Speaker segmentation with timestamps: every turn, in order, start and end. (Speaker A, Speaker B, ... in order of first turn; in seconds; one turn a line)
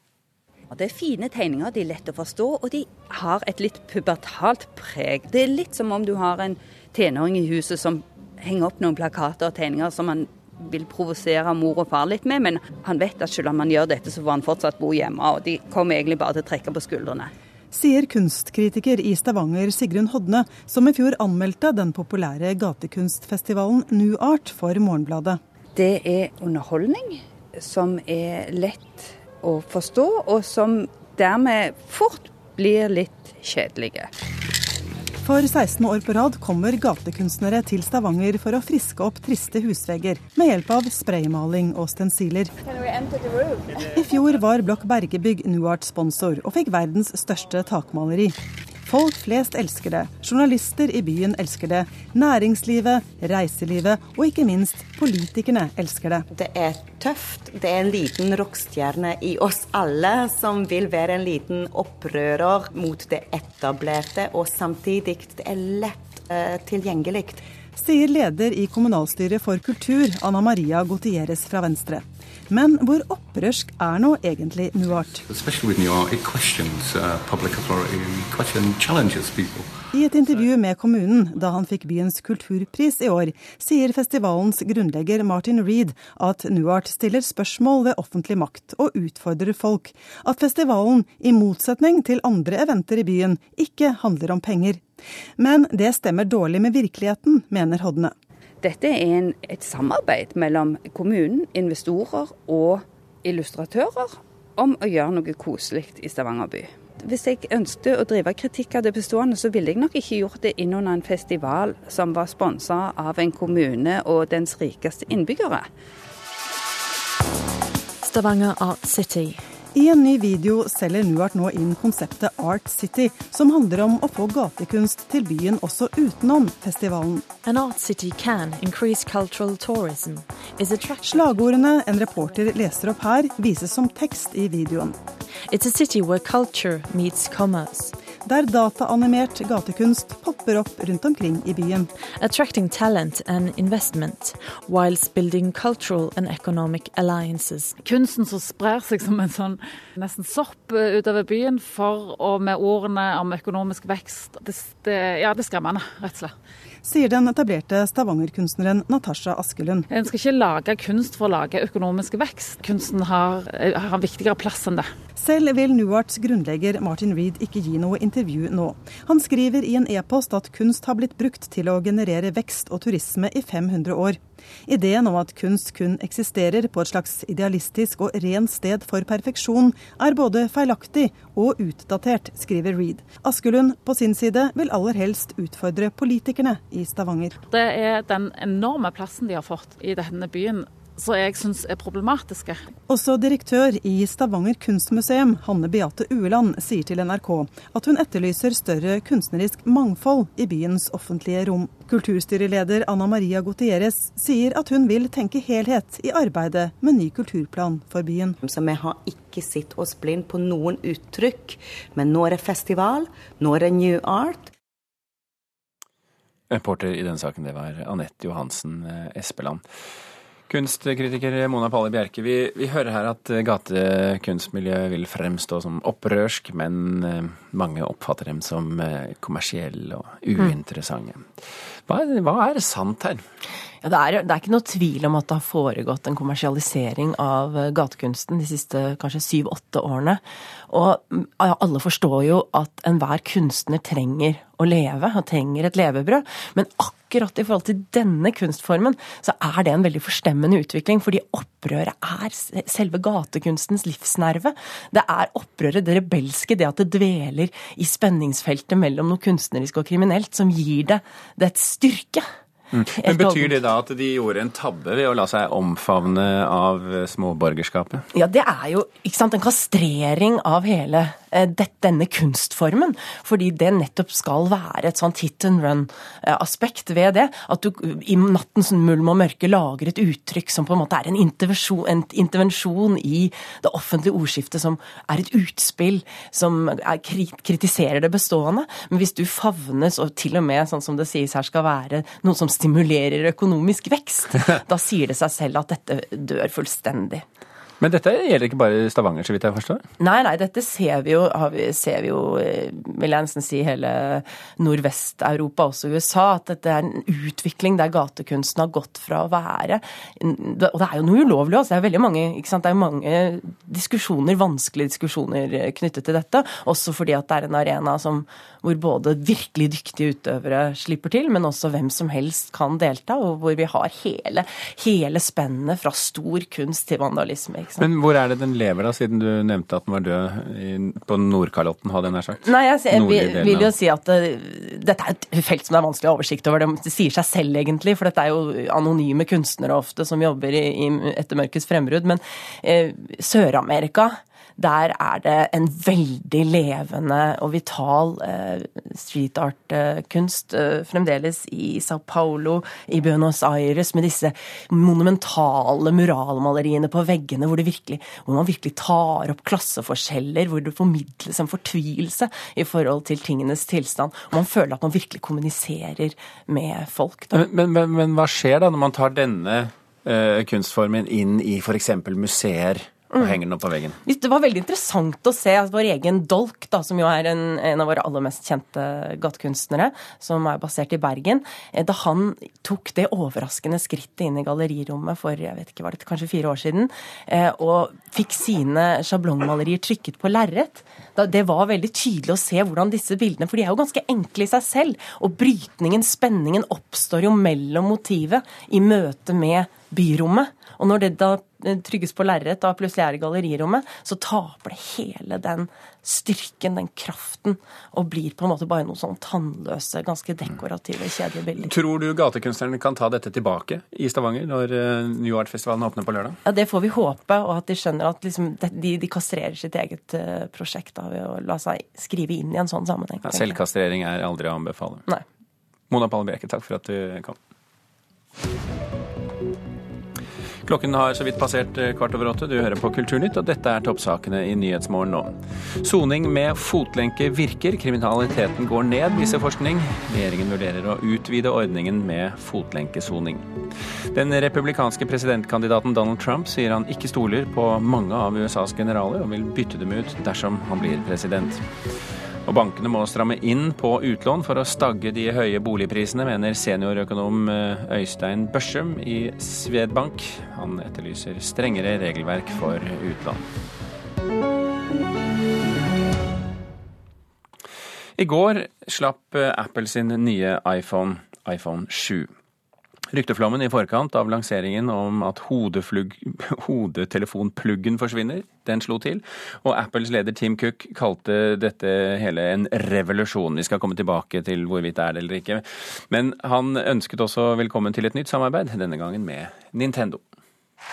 Speaker A: 0.7-17.3
Speaker B: 17.7-25.4
Speaker A: 25.7-34.1
Speaker B: 35.2-42.5
Speaker A: 42.7-43.7
Speaker B: 43.8-56.2
Speaker C: 56.3-67.4
Speaker B: 67.8-75.2
Speaker D: 75.2-79.7
Speaker B: 79.9-94.8
Speaker B: 95.4-98.1
Speaker A: 98.6-115.7
Speaker E: 118.0-119.4
Speaker B: 119.7-127.3
Speaker E: 127.4-131.4
Speaker B: 131.1-134.9
Speaker E: 135.5-137.9
Speaker B: 138.2-141.9
Speaker E: 142.2-147.7
Speaker F: 147.8-156.3
Speaker B: 156.8-159.9
Speaker F: 159.9-164.9
Speaker B: 165.2-187.3
Speaker F: 187.5-192.6
Speaker B: 192.9-208.4
Speaker C: 208.4-214.5
Speaker G: 216.5-219.6
Speaker G: 220.5-233.2
Speaker H: 233.8-262.3
Speaker G: 262.7-268.1
Speaker H: 263.0-263.6
Speaker H: 268.1-297.2
Speaker G: 297.8-299.8
Speaker H: 300.0-327.9
Speaker G: 327.8-333.7
Speaker H: 332.4-367.4
Speaker G: 367.3-374.0
Speaker H: 373.1-373.4
Speaker H: 374.0-411.7
Speaker G: 411.6-416.4
Speaker H: 416.4-423.6
Speaker G: 423.2-425.1
Speaker G: 425.9-427.4
Speaker G: 430.6-443.5
Speaker G: 444.1-451.6
Speaker G: 452.4-463.5
Speaker G: 468.2-472.3
Speaker G: 473.1-490.2